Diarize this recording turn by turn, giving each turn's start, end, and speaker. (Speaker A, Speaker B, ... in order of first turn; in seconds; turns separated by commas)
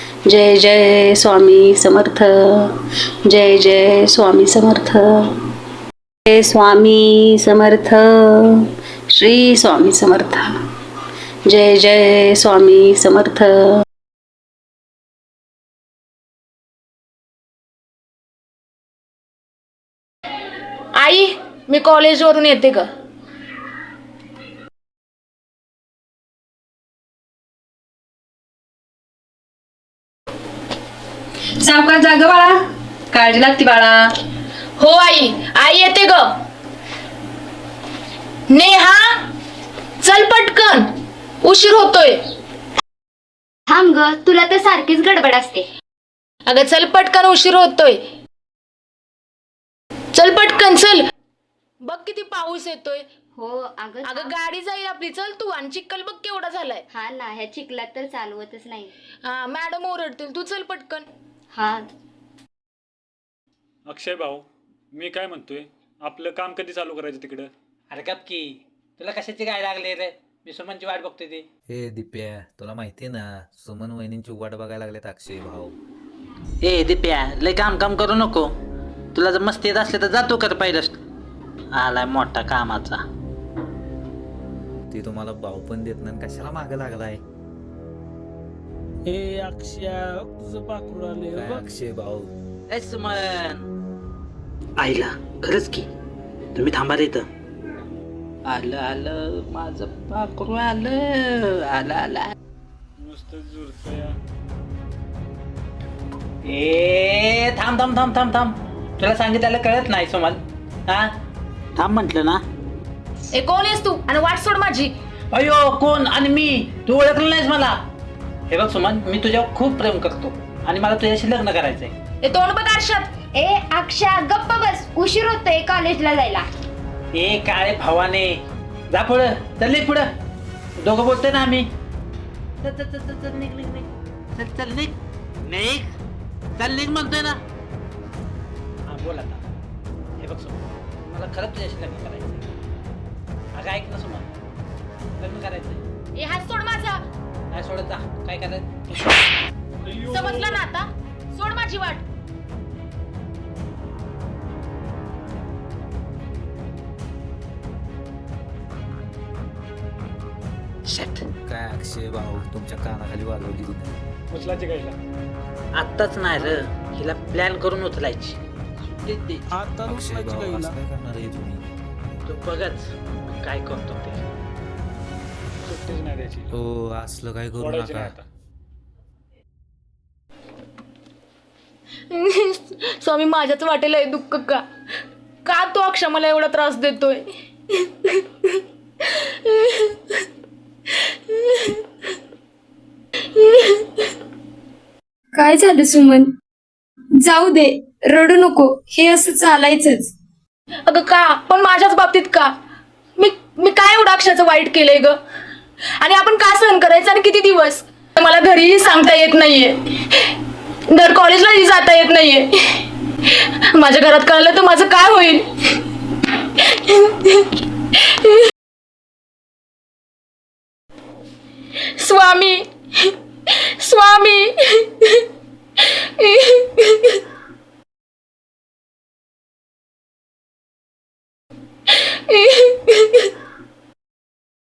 Speaker A: 0.3-5.4, Speaker A: 6.3-10.6, Speaker A: 11.5-13.8, Speaker B: 20.9-22.9, Speaker C: 31.6-32.6, Speaker C: 33.1-34.0, Speaker B: 34.8-36.2, Speaker B: 38.5-39.2, Speaker B: 40.0-40.9, Speaker B: 41.4-42.2, Speaker D: 43.7-45.6, Speaker B: 46.5-48.0, Speaker B: 50.1-51.0, Speaker B: 51.8-53.0, Speaker D: 53.4-54.3, Speaker B: 54.0-56.8, Speaker D: 56.9-58.9, Speaker B: 59.2-61.0, Speaker D: 61.5-61.9, Speaker E: 63.9-67.5, Speaker C: 67.9-71.5, Speaker F: 71.7-75.8, Speaker C: 76.6-78.5, Speaker C: 79.1-81.0, Speaker C: 81.7-83.0, Speaker F: 84.9-87.2, Speaker G: 89.0-91.6, Speaker F: 91.3-92.3, Speaker C: 92.7-93.6, Speaker C: 94.8-95.9, Speaker C: 96.5-97.2, Speaker C: 98.5-102.3, Speaker E: 103.0-104.2, Speaker C: 106.4-111.1, Speaker C: 111.8-112.4, Speaker B: 113.3-114.9, Speaker C: 115.3-117.8, Speaker C: 118.5-121.9, Speaker B: 122.2-123.1, Speaker D: 123.3-126.5, Speaker C: 127.1-130.1, Speaker C: 130.8-131.7, Speaker C: 132.6-135.9, Speaker C: 136.6-137.4, Speaker C: 138.9-139.4, Speaker C: 140.2-142.4, Speaker C: 143.5-144.3, Speaker C: 145.2-145.8, Speaker B: 146.2-147.0, Speaker C: 147.5-148.7, Speaker B: 149.9-152.0, Speaker C: 160.8-161.3, Speaker F: 161.4-164.0, Speaker E: 164.3-165.0, Speaker C: 165.7-169.4, Speaker G: 169.5-170.8, Speaker F: 169.8-171.6, Speaker C: 172.2-174.3, Speaker E: 175.6-176.5, Speaker F: 176.5-178.1, Speaker E: 177.6-178.2, Speaker B: 182.1-184.6, Speaker B: 185.4-190.2, Speaker B: 191.1-191.8, Speaker B: 193.3-194.1, Speaker H: 195.3-196.3, Speaker H: 197.2-200.1, Speaker B: 200.9-202.5, Speaker B: 203.2-205.2, Speaker B: 206.0-210.3, Speaker B: 210.9-215.8, Speaker B: 216.6-218.3, Speaker B: 222.0-225.2, Speaker B: 225.8-227.2, Speaker B: 231.9-233.3